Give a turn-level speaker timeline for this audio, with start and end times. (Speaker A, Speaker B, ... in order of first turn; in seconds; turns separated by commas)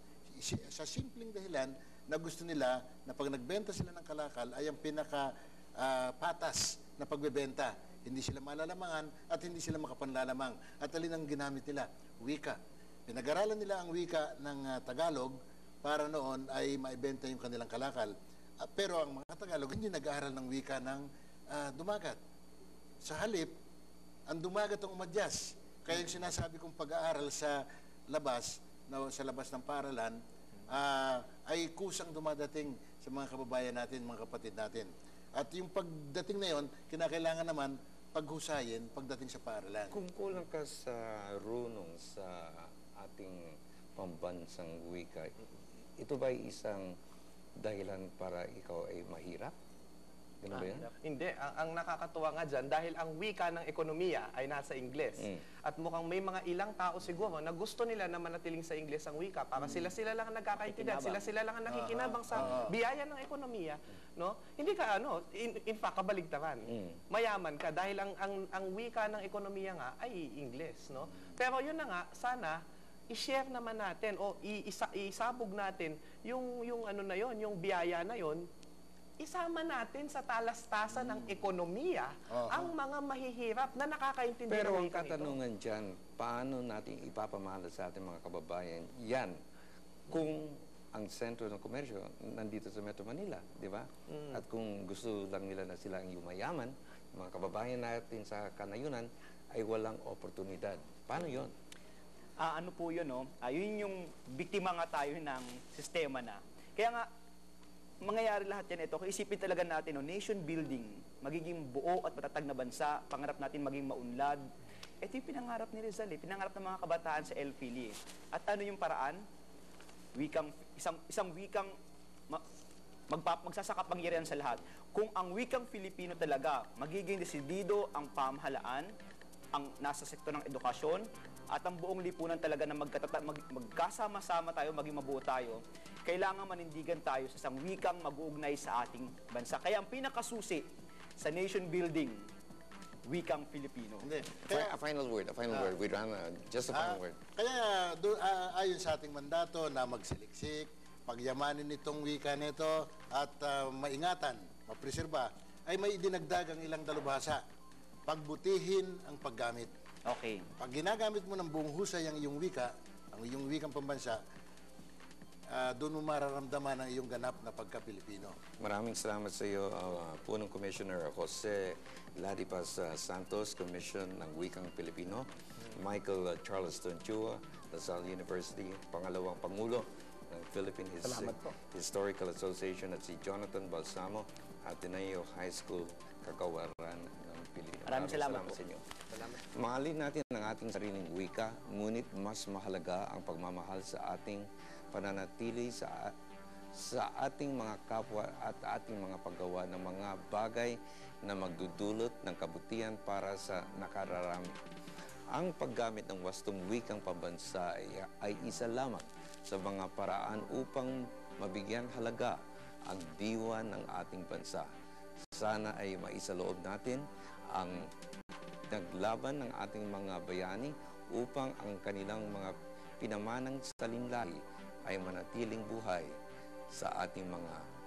Speaker A: 0.4-22.2, Speaker A: 23.0-23.5, Speaker A: 24.3-30.2, Speaker A: 30.7-40.0, Speaker B: 39.9-45.3, Speaker B: 46.0-46.9, Speaker B: 47.6-49.5, Speaker B: 50.4-50.9, Speaker C: 50.5-78.5, Speaker B: 55.2-55.4, Speaker D: 60.6-61.3, Speaker A: 61.7-62.8, Speaker B: 66.7-67.0, Speaker C: 79.2-85.3, Speaker A: 81.0-81.3, Speaker A: 82.3-82.7, Speaker B: 84.5-89.4, Speaker B: 90.1-101.5, Speaker C: 94.1-94.4, Speaker D: 102.4-107.1, Speaker D: 108.0-114.4, Speaker D: 115.0-119.2, Speaker D: 120.2-121.7, Speaker D: 123.1-128.9, Speaker D: 129.5-140.7, Speaker D: 141.2-142.2, Speaker D: 143.1-144.1, Speaker A: 144.0-144.8, Speaker B: 144.5-147.2, Speaker A: 146.7-157.4, Speaker A: 158.1-159.7, Speaker D: 160.1-160.5, Speaker A: 160.6-164.2, Speaker A: 165.5-168.4, Speaker B: 168.6-196.1, Speaker D: 187.9-188.6, Speaker B: 196.8-204.5, Speaker B: 205.3-214.7, Speaker B: 215.3-217.9, Speaker B: 218.7-226.1, Speaker B: 226.7-227.6